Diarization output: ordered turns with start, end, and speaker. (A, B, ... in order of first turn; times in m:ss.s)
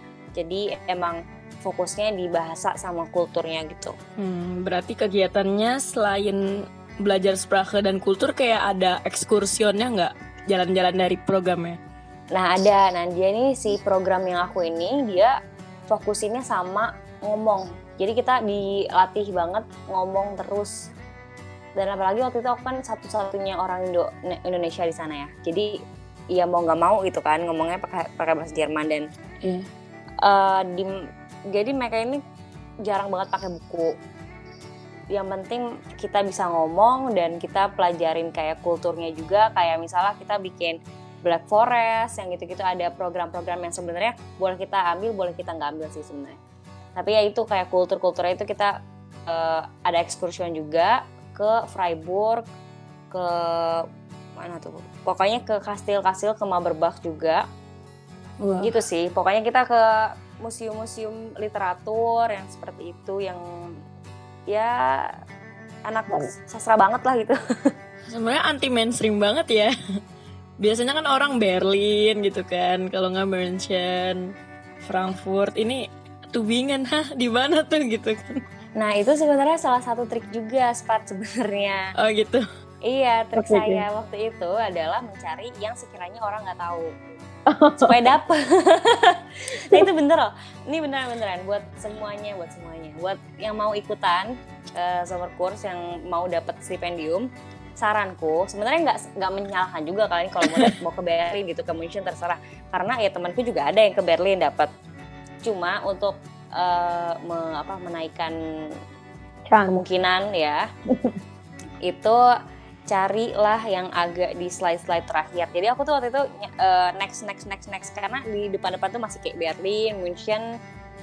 0:00.4-0:03.9 A
0:04.2-0:11.8 B
0:12.3-0:15.3 A
0:15.9-0:20.9 A
0:21.8-0:25.7 A
0:26.3-0:29.1 A
0:30.2-0:30.9 A
0:31.5-0:32.2 A
0:32.8-0:33.9 A
0:35.1-0:46.4 A
0:47.0-0:48.7 A
0:49.3-0:52.4 A
0:53.1-0:53.8 A
0:54.4-0:57.4 A
0:58.4-0:58.8 B
0:58.6-1:03.4 A
1:04.5-1:05.1 A
1:05.9-1:07.4 A
1:08.1-1:09.7 B
1:10.6-1:14.2 B
1:14.8-1:18.3 B
1:18.8-1:21.9 A
1:22.0-1:22.4 B
1:22.9-1:26.9 A
1:27.8-1:37.3 A
1:37.8-1:44.7 A
1:40.4-1:40.7 B
1:45.4-1:48.3 A
1:49.5-1:49.8 B
1:49.7-1:50.6 A
1:51.8-1:52.2 A
1:52.9-2:00.4 A